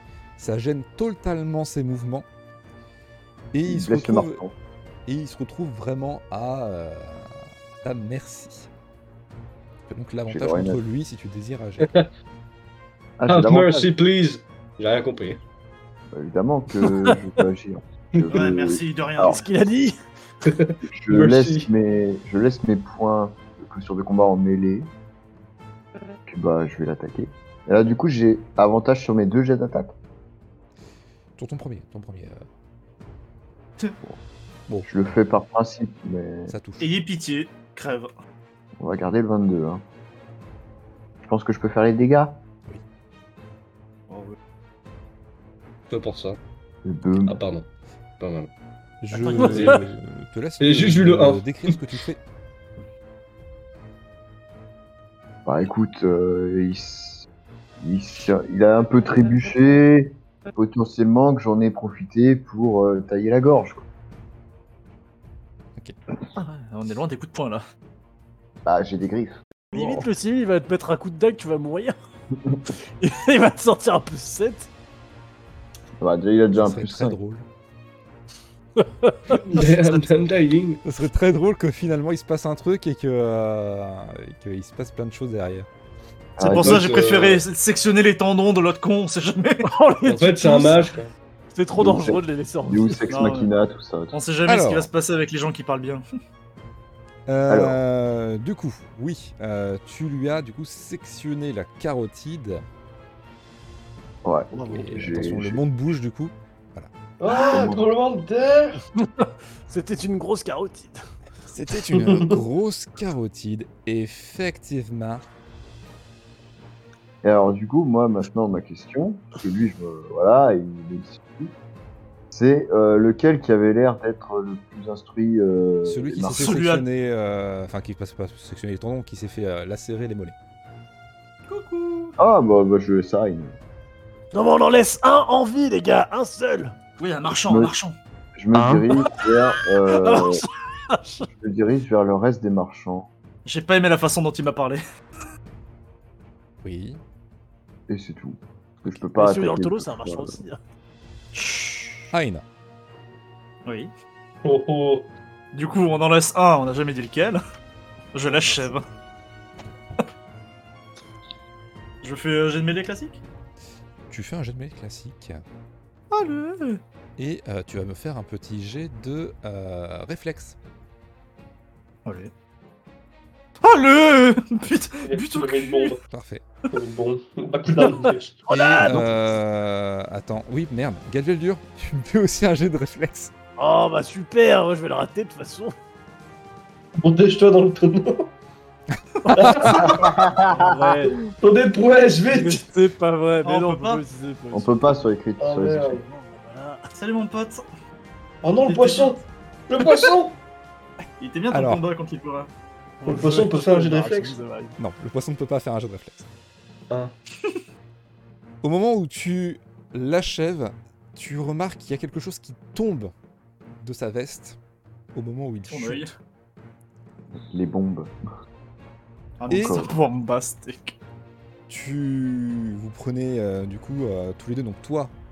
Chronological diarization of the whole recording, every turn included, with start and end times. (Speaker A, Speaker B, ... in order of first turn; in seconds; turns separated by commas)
Speaker A: 0.4-2.3, Speaker A: 3.5-4.4, Speaker B: 3.7-4.5, Speaker A: 5.1-8.7, Speaker A: 9.9-11.9, Speaker B: 10.3-10.8, Speaker B: 13.2-13.9, Speaker C: 13.3-15.4, Speaker B: 16.1-19.4, Speaker D: 16.8-17.1, Speaker E: 18.3-19.5, Speaker D: 19.2-19.9, Speaker C: 20.4-21.7, Speaker B: 20.9-24.9, Speaker B: 26.3-29.9, Speaker A: 31.4-32.4, Speaker A: 34.7-35.2, Speaker B: 34.9-36.5, Speaker A: 36.5-36.9, Speaker E: 36.8-38.1, Speaker B: 38.8-39.8, Speaker B: 41.2-42.4, Speaker E: 44.1-44.4, Speaker C: 45.9-46.4, Speaker B: 46.8-47.4, Speaker C: 47.2-47.7, Speaker C: 48.2-48.5, Speaker A: 49.0-52.2, Speaker E: 49.1-49.8, Speaker C: 49.3-49.8, Speaker C: 50.6-51.8, Speaker B: 55.4-57.3, Speaker B: 57.8-63.8, Speaker E: 66.3-67.6, Speaker B: 68.6-70.0, Speaker D: 69.7-71.9, Speaker D: 73.0-74.7, Speaker B: 76.0-77.2, Speaker A: 76.5-77.5, Speaker D: 78.8-79.4, Speaker C: 79.3-80.8, Speaker A: 80.8-85.7, Speaker B: 86.4-86.9, Speaker E: 86.4-89.7, Speaker C: 86.6-87.4, Speaker D: 89.6-90.9, Speaker C: 90.1-91.1, Speaker D: 91.5-93.2, Speaker B: 91.8-94.1, Speaker E: 93.1-93.5, Speaker E: 94.1-96.0, Speaker A: 94.5-94.9, Speaker A: 97.3-102.6, Speaker B: 97.5-97.8, Speaker B: 104.2-105.6, Speaker A: 104.6-106.9, Speaker C: 107.2-108.8, Speaker B: 107.4-107.8, Speaker D: 109.0-111.0, Speaker A: 111.5-115.2, Speaker C: 111.9-112.3, Speaker B: 117.2-121.5, Speaker B: 122.3-126.5, Speaker A: 125.8-130.3, Speaker E: 126.3-126.8, Speaker E: 131.5-132.2, Speaker B: 132.2-133.6, Speaker D: 134.3-136.7, Speaker E: 137.0-137.9, Speaker B: 137.5-137.7, Speaker B: 138.4-140.4, Speaker C: 138.6-138.9, Speaker D: 139.9-141.3, Speaker B: 141.3-143.1, Speaker E: 143.4-144.8, Speaker A: 146.6-147.0, Speaker B: 147.9-150.4, Speaker D: 149.1-150.6, Speaker E: 151.3-152.1, Speaker A: 152.1-152.4, Speaker E: 153.7-153.9, Speaker C: 154.4-155.1, Speaker E: 155.5-157.4, Speaker E: 158.1-158.8, Speaker D: 158.5-158.8, Speaker E: 162.0-163.2, Speaker A: 164.1-165.4, Speaker E: 166.1-166.8, Speaker A: 167.2-170.6, Speaker E: 172.1-172.3, Speaker E: 173.6-175.9, Speaker C: 175.1-176.0, Speaker A: 176.1-176.4, Speaker C: 176.7-178.4, Speaker D: 177.8-179.1, Speaker A: 178.5-183.3, Speaker E: 178.6-179.0, Speaker D: 183.6-185.7, Speaker C: 187.0-188.3, Speaker D: 189.2-191.2, Speaker C: 189.3-190.1, Speaker A: 189.5-189.7, Speaker B: 189.8-190.7, Speaker C: 191.1-192.7, Speaker D: 192.3-195.0, Speaker E: 193.4-194.0, Speaker B: 194.5-196.0, Speaker C: 195.4-196.1, Speaker D: 195.9-196.8, Speaker E: 196.9-197.6, Speaker C: 198.4-200.4, Speaker E: 198.6-199.2, Speaker E: 201.2-202.5, Speaker A: 201.5-201.8, Speaker D: 203.0-204.8, Speaker C: 203.1-204.4, Speaker A: 204.8-206.2, Speaker A: 208.6-213.1, Speaker A: 213.8-214.6, Speaker A: 215.1-216.1, Speaker E: 215.7-216.1, Speaker B: 217.3-218.1, Speaker E: 219.4-220.9, Speaker A: 219.5-219.8, Speaker B: 219.5-219.9, Speaker A: 221.7-225.1